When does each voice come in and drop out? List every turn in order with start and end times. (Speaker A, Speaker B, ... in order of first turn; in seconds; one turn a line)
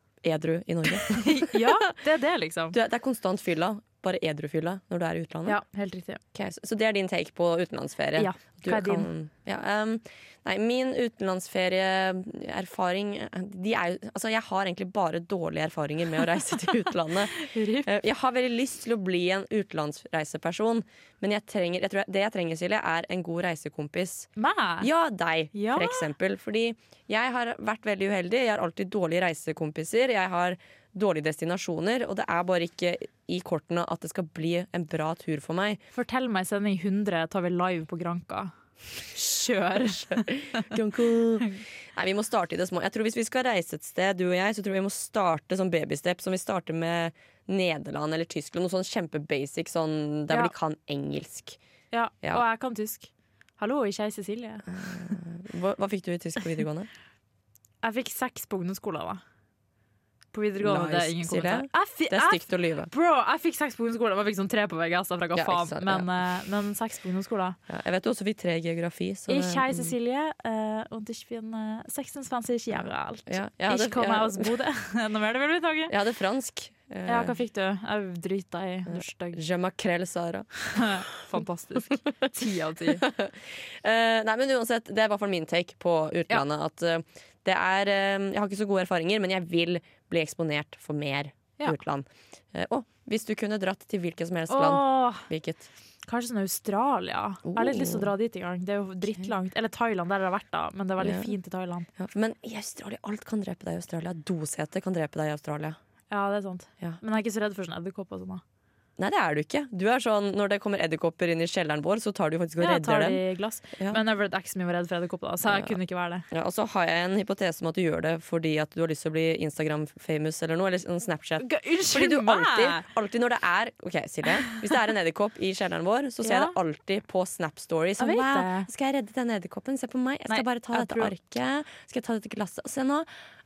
Speaker A: 0.2-2.0
Speaker B: 1.0-2.8
Speaker A: 2.7-5.6
Speaker B: 5.5-6.2
Speaker A: 6.3-24.3
Speaker B: 8.2-9.1
Speaker B: 17.3-18.0
Speaker B: 24.4-24.9
Speaker A: 24.8-35.8
Speaker B: 25.5-26.1
Speaker B: 35.9-38.5
Speaker B: 39.0-40.7
Speaker A: 39.8-51.6
Speaker B: 51.9-54.6
Speaker A: 54.6-56.9
Speaker B: 57.8-59.2
Speaker B: 60.3-67.6
Speaker A: 60.6-62.9
Speaker A: 65.3-66.1
Speaker A: 67.7-70.0
Speaker B: 69.3-75.9
Speaker A: 73.3-74.5
Speaker A: 75.9-77.3
Speaker B: 77.1-79.4
Speaker A: 78.9-81.0
Speaker B: 80.7-83.0
Speaker A: 82.9-95.7
Speaker B: 94.5-95.3
Speaker B: 96.1-101.9
Speaker A: 97.5-98.1
Speaker A: 101.0-101.3
Speaker A: 102.0-105.8
Speaker B: 106.1-108.4
Speaker A: 109.0-113.2
Speaker B: 112.6-116.3
Speaker A: 113.8-114.0
Speaker A: 115.5-115.8
Speaker A: 116.3-133.1
Speaker B: 121.4-122.9
Speaker B: 126.2-126.6
Speaker B: 128.0-128.7
Speaker B: 130.3-131.2